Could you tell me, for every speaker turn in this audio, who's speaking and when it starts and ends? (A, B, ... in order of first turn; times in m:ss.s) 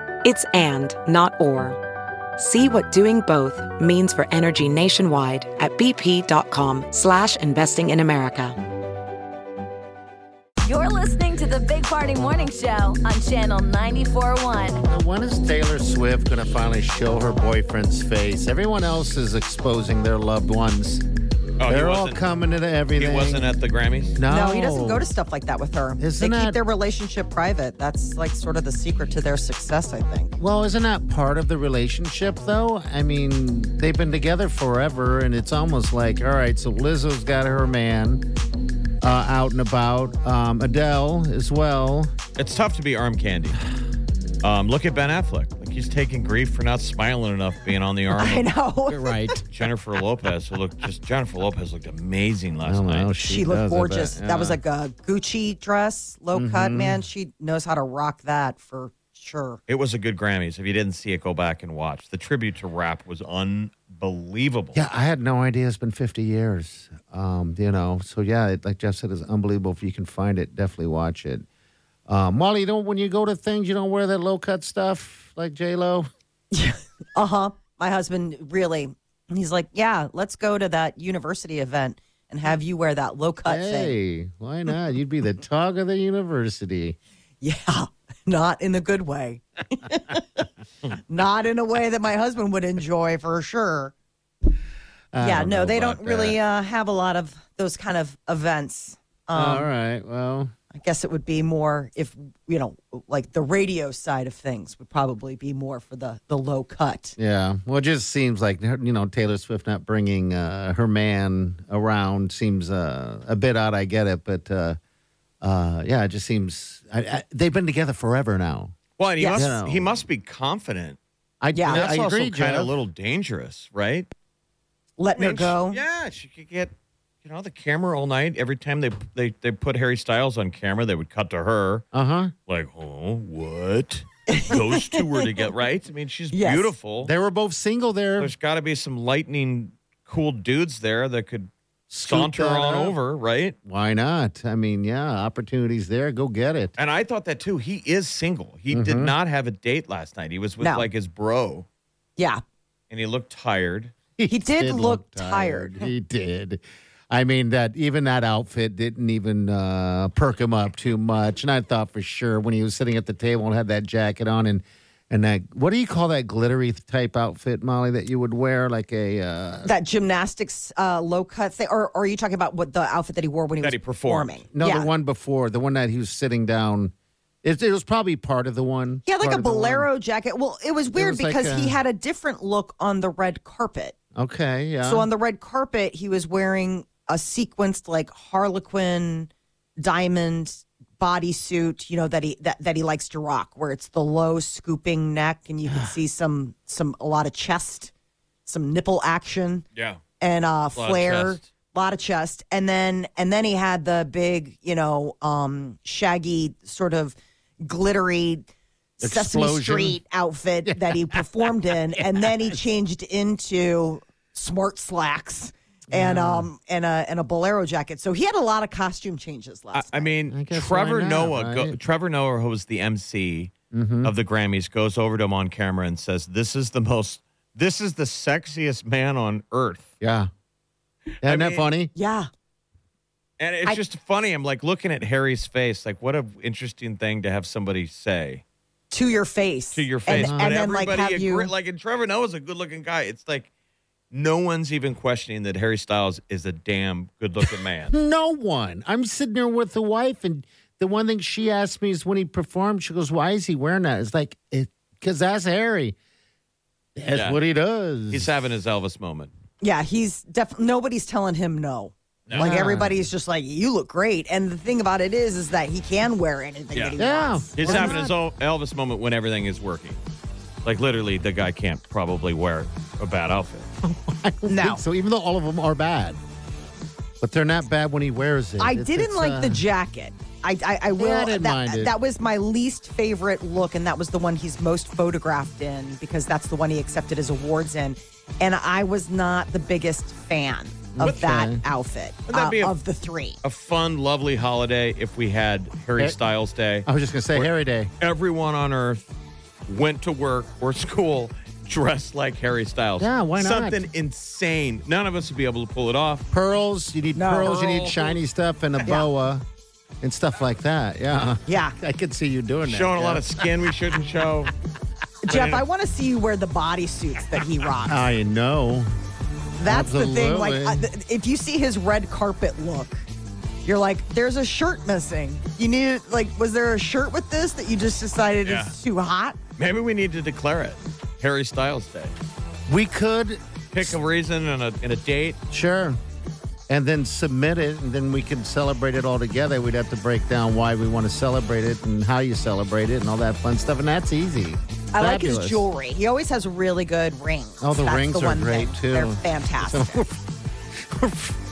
0:00.2-0:01.8 A
0:02.4-0:08.6 A
0:10.6-0:14.8 B
0:14.9-0:21.0 C
0:21.6-0:22.2 D
0:21.7-0:23.5 C
0:23.0-0:24.2 D
0:24.1-0:25.1 C
0:24.3-0:30.4 E
0:26.0-0:26.6 C
0:30.4-0:38.2 C
0:39.0-0:42.1 C
0:42.4-0:43.6 D
0:44.4-0:48.5 D
0:48.1-0:49.2 E
0:48.9-0:49.4 C
0:49.5-0:53.1 D
0:52.6-0:54.6 C
0:53.2-0:59.6 E
0:56.3-0:57.0 C
0:59.7-1:04.8 D
1:04.7-1:11.4 C
1:12.1-1:16.1 C
1:16.5-1:23.9 E
1:23.5-1:27.0 C
1:27.4-1:30.4 E
1:31.1-1:33.9 E
1:35.1-1:36.4 C
1:35.2-1:39.7 E
1:39.3-1:40.5 C
1:40.7-1:47.2 E
1:47.2-1:54.8 C
1:55.4-1:58.7 C
1:59.0-2:01.0 D
1:59.2-1:59.5 E
1:59.3-2:00.0 C
2:01.4-2:02.7 C
2:01.5-2:01.8 E
2:01.7-2:04.1 D
2:05.0-2:05.8 E
2:05.2-2:06.7 D
2:07.2-2:11.8 D
2:11.9-2:12.3 C
2:12.5-2:17.1 D
2:14.3-2:15.2 E
2:16.3-2:16.7 E
2:17.0-2:18.3 C
2:18.2-2:21.5 D
2:21.9-2:22.9 C
2:22.0-2:23.6 D
2:23.6-2:26.7 C
2:26.8-2:31.6 D
2:28.7-2:29.1 C
2:30.6-2:30.9 E
2:32.2-2:32.4 E
2:32.9-2:33.9 D
2:34.2-2:49.7 C
2:34.3-2:35.9 E
2:49.6-2:54.9 E
2:53.6-2:54.4 D
2:54.5-2:59.9 C
2:59.0-3:04.0 E
3:00.9-3:01.8 C
3:04.1-3:05.1 C
3:04.8-3:17.9 E
3:18.5-3:19.6 E
3:19.7-3:20.0 D
3:20.2-3:28.5 E
3:20.8-3:21.4 D
3:29.0-3:40.1 E
3:29.0-3:30.0 C
3:30.6-3:32.3 C
3:35.9-3:36.5 C
3:39.7-3:43.5 D
3:40.3-3:41.8 C
3:43.7-3:44.1 C
3:44.0-3:49.9 D
3:50.0-3:50.3 C
3:51.2-3:51.7 D
3:51.2-3:51.9 C
3:51.9-3:52.3 E
3:53.4-3:58.4 D
3:58.9-4:01.5 E
3:59.7-4:03.5 D
4:00.1-4:00.6 C
4:04.1-4:07.9 D
4:07.9-4:16.0 C
4:17.0-4:18.3 C
4:17.1-4:17.4 D
4:18.1-4:19.3 D
4:19.6-4:28.0 E
4:22.3-4:22.5 D
4:22.3-4:23.0 C
4:27.0-4:28.1 C
4:27.6-4:30.0 D
4:30.6-4:33.7 D
4:33.8-4:36.2 C
4:34.5-4:34.8 E
4:37.2-4:39.6 C
4:38.6-4:53.4 E
4:40.9-4:41.9 C
4:50.9-4:51.6 C
4:52.3-4:52.8 D
4:53.4-4:59.0 D
4:56.8-4:57.9 C
4:59.7-5:06.2 D
5:03.0-5:03.8 C
5:06.3-5:09.4 C
5:07.1-5:07.6 E
5:07.4-5:08.2 D
5:08.8-5:09.1 E
5:10.0-5:13.5 C
5:11.5-5:11.8 E
5:12.6-5:14.5 D
5:15.2-5:18.0 E
5:15.3-5:15.6 D
5:17.8-5:18.9 C
5:19.6-5:23.0 E
5:19.6-5:20.9 C
5:23.6-5:29.4 E
5:28.4-5:28.7 D
5:29.6-5:32.1 D
5:32.7-5:34.0 C
5:33.7-5:35.4 D
5:35.5-5:36.0 C
5:36.7-5:45.6 C
5:44.9-5:50.0 E
5:47.6-5:51.4 C